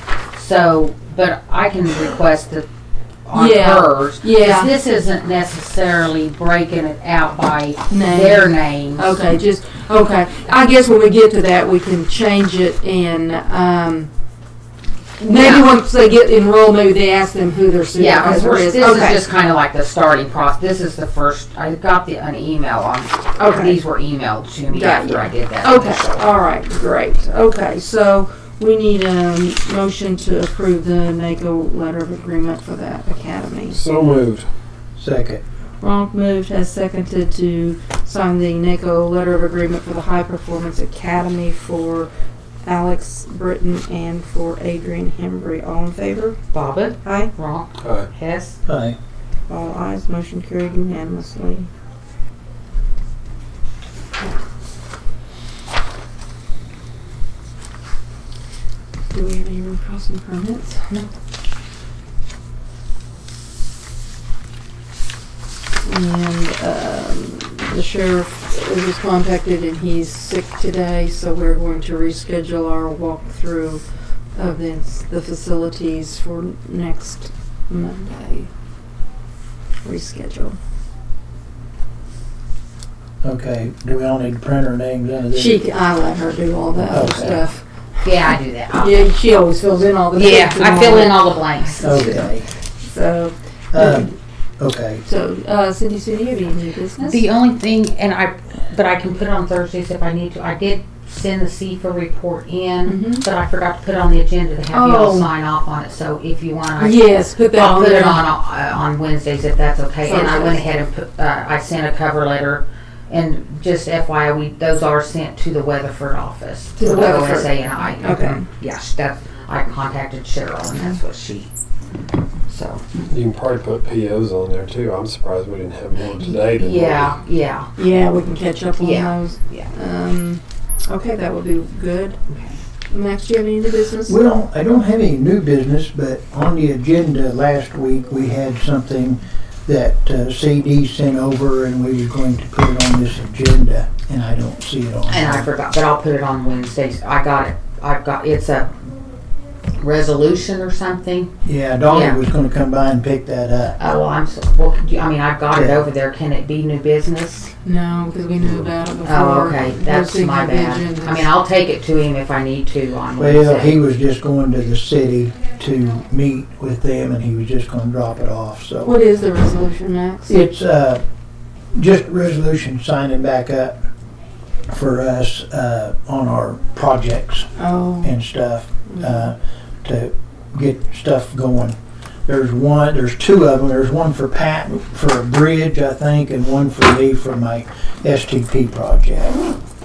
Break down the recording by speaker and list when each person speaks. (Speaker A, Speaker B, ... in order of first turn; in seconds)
Speaker A: 0.3-2.6, 3.2-9.2, 15.3-15.7, 18.0-26.2, 46.5-48.6, 88.0-89.0, 90.1-92.3, 97.0-121.5, 122.5-122.8, 126.2-127.7, 128.8-129.7, 132.3-132.6, 145.1-148.7, 149.8-151.3, 151.9-152.2, 153.8-157.5, 159.1-163.8
Speaker B: 3.3-4.7, 7.9-14.1, 15.2-19.2, 23.4-23.8, 24.6-33.8, 35.8-42.1, 42.6-46.4, 47.0-47.3, 49.5-51.7, 59.1-61.0, 65.8-73.8, 74.3-78.5, 79.8-80.6, 85.3-88.1, 88.7-92.3, 92.8-94.1, 95.0-97.2, 102.8-103.2, 104.7-105.3, 106.8-108.2, 110.0-110.6, 116.8-118.5, 127.8-132.2, 132.9-134.2, 157.6-161.3, 168.8-170.3, 177.6-178.1, 178.9-179.3
Speaker C: 33.7-34.5, 47.8-48.1, 123.1-127.1
Speaker D: 35.0-35.4, 48.6-49.0, 83.2-85.6, 86.8-87.4, 91.8-92.5, 93.7-95.0, 134.1-145.5, 151.4-153.8, 155.5-155.8, 163.2-168.9, 170.3-171.0, 171.8-173.8, 174.7-177.5, 178.0-181.8, 182.3-189.5